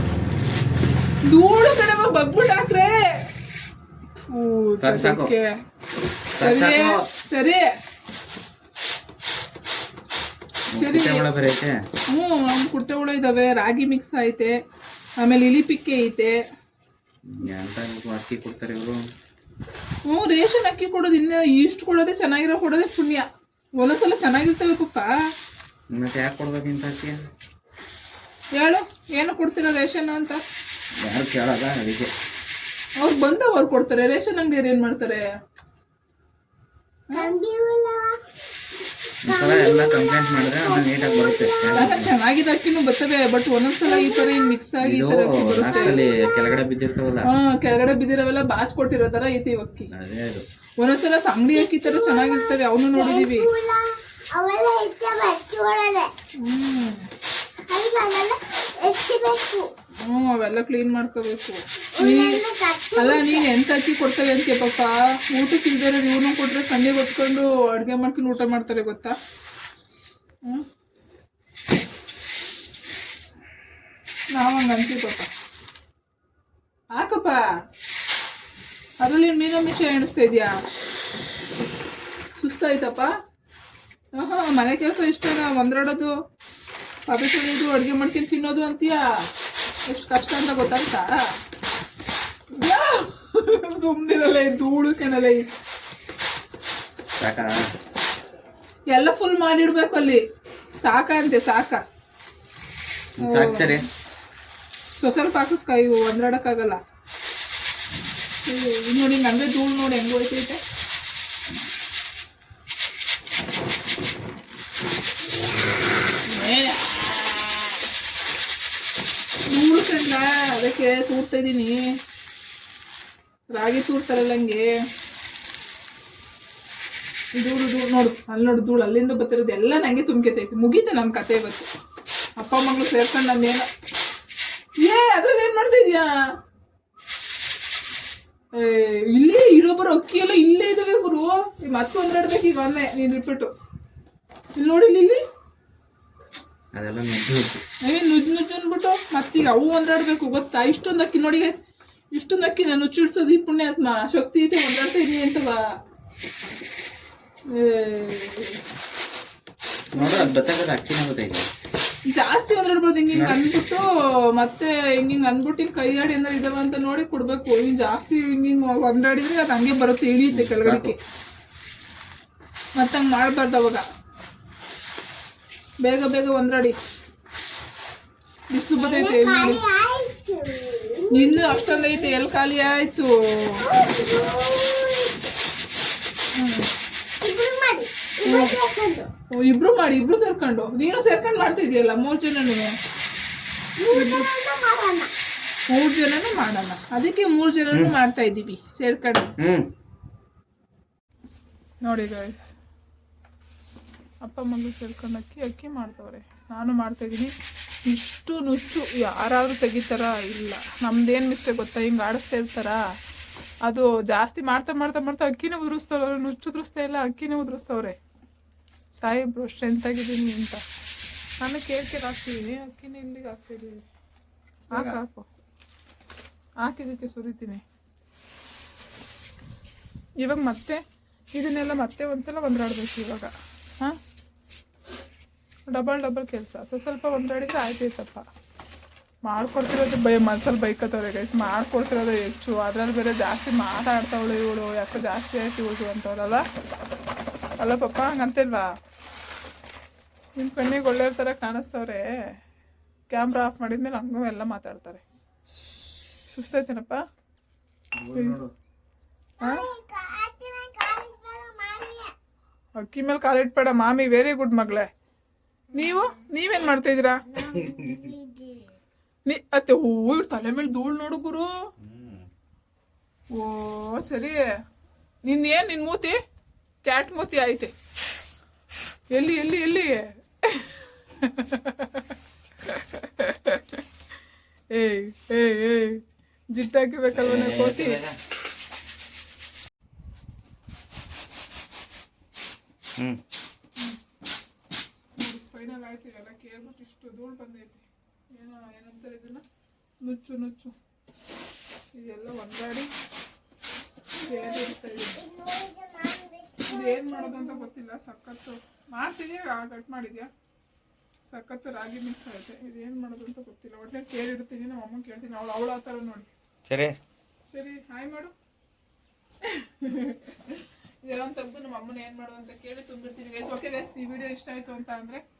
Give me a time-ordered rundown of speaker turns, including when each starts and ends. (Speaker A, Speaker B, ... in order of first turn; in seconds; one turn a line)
Speaker A: 1.2-3.2
Speaker A: 4.3-5.5
Speaker B: 4.8-5.3
Speaker B: 6.4-7.0
Speaker A: 6.4-7.7
Speaker B: 10.7-11.8
Speaker A: 10.8-11.3
Speaker A: 12.1-14.6
Speaker A: 15.2-16.4
Speaker B: 17.3-19.0
Speaker A: 20.1-23.3
Speaker A: 23.8-25.1
Speaker B: 25.9-27.2
Speaker A: 28.6-30.4
Speaker B: 31.0-32.1
Speaker A: 33.0-35.2
Speaker C: 37.1-38.1
Speaker C: 39.3-42.0
Speaker B: 39.3-42.1
Speaker A: 41.8-46.0
Speaker C: 43.9-44.6
Speaker B: 44.8-47.3
Speaker C: 45.7-46.6
Speaker A: 47.3-49.9
Speaker B: 49.9-50.5
Speaker A: 50.8-53.5
Speaker C: 51.5-56.1
Speaker A: 56.4-57.1
Speaker C: 57.7-59.7
Speaker A: 60.0-62.4
Speaker C: 62.0-63.5
Speaker A: 63.0-69.2
Speaker A: 74.3-75.3
Speaker A: 76.9-77.4
Speaker A: 79.0-80.6
Speaker A: 82.4-83.1
Speaker A: 84.2-86.2
Speaker A: 87.1-89.1
Speaker A: 89.9-91.2
Speaker A: 92.5-95.5
Speaker B: 97.2-97.6
Speaker A: 98.9-100.2
Speaker A: 100.8-101.8
Speaker B: 103.2-103.8
Speaker A: 103.2-103.8
Speaker A: 105.0-106.8
Speaker A: 108.5-110.6
Speaker A: 116.3-117.5
Speaker A: 119.5-121.9
Speaker A: 123.5-124.7
Speaker A: 127.4-131.7
Speaker A: 132.4-133.7
Speaker A: 134.8-136.1
Speaker A: 138.6-143.5
Speaker A: 144.6-145.2
Speaker B: 146.8-147.6
Speaker A: 147.8-151.6
Speaker A: 152.2-155.6
Speaker A: 157.5-158.6
Speaker A: 159.9-160.4
Speaker B: 159.9-161.5
Speaker A: 162.1-171.0
Speaker B: 163.1-163.4
Speaker B: 170.3-170.9
Speaker A: 172.8-173.8
Speaker A: 175.8-176.8
Speaker A: 178.5-179.6
Speaker C: 178.8-182.2
Speaker A: 181.1-183.6
Speaker C: 183.6-185.1
Speaker A: 186.4-186.7
Speaker C: 187.2-189.1
Speaker A: 188.3-188.6
Speaker A: 189.3-192.8
Speaker C: 193.8-195.1
Speaker A: 193.9-194.3
Speaker A: 195.7-199.3
Speaker B: 199.4-199.7
Speaker A: 201.8-202.5
Speaker A: 204.2-207.3
Speaker A: 207.9-212.8
Speaker A: 213.7-218.0
Speaker A: 219.0-220.6
Speaker A: 221.4-223.8
Speaker A: 224.8-225.3
Speaker A: 226.6-227.6
Speaker A: 230.2-230.8
Speaker A: 231.3-233.3
Speaker A: 235.7-238.2
Speaker A: 239.3-246.4
Speaker A: 247.6-248.7
Speaker A: 250.4-252.1
Speaker A: 253.1-255.0
Speaker A: 256.3-257.0
Speaker B: 258.0-258.5
Speaker C: 259.4-262.1
Speaker A: 262.8-264.9
Speaker A: 265.7-267.2
Speaker C: 265.8-266.1
Speaker C: 267.3-268.7
Speaker B: 267.7-268.1
Speaker A: 269.3-271.5
Speaker B: 271.8-272.3
Speaker A: 273.3-274.4
Speaker A: 275.3-276.2
Speaker A: 276.9-277.7
Speaker A: 279.1-283.8
Speaker A: 284.7-288.0
Speaker B: 287.1-288.2
Speaker A: 295.2-299.4
Speaker A: 300.0-300.8
Speaker A: 301.9-302.9
Speaker C: 304.1-307.7
Speaker A: 304.2-305.2
Speaker A: 306.7-310.3
Speaker A: 311.3-316.3
Speaker B: 316.7-317.0
Speaker A: 317.5-318.3
Speaker A: 319.4-325.2